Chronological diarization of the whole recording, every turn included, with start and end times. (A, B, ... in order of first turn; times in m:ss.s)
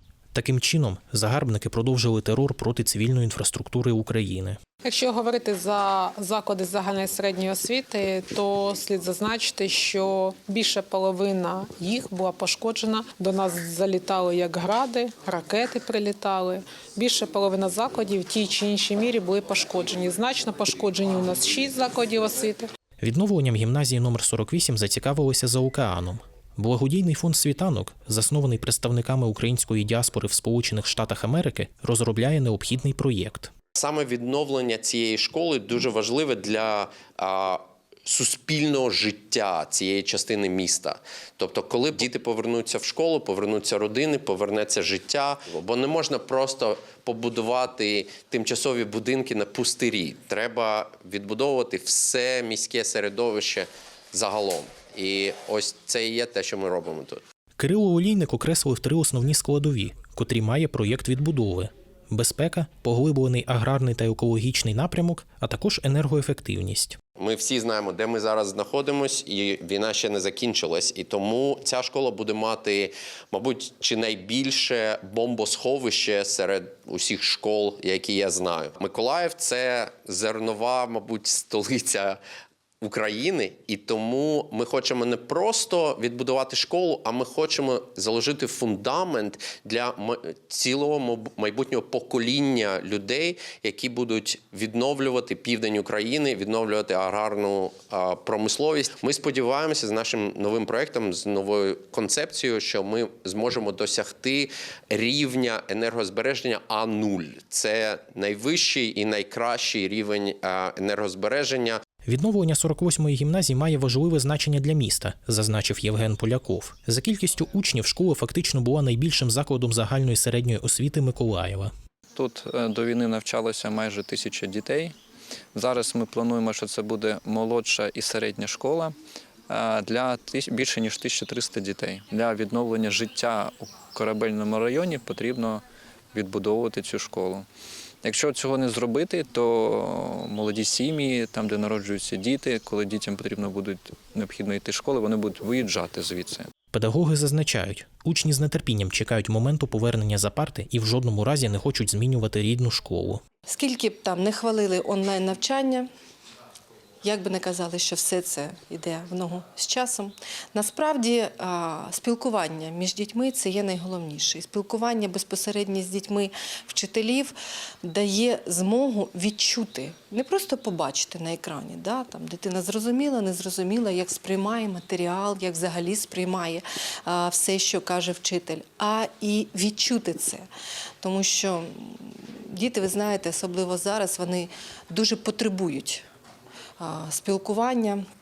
0:00.3-0:04.6 A
0:04.8-0:22.7 B
0:23.0-0:33.5 A
0:33.8-0:57.2 C
0:57.6-1:07.0 A
1:07.2-1:22.2 C
1:22.8-1:51.8 C
1:52.0-2:01.7 A
2:02.2-2:04.9 D
2:05.5-2:08.9 D
2:09.5-2:15.6 D
2:16.1-2:17.4 D
2:18.0-2:26.4 D
2:26.7-2:33.2 A
2:33.4-2:35.9 E
2:37.0-3:00.5 E
3:01.0-3:06.0 E
3:06.8-3:08.0 E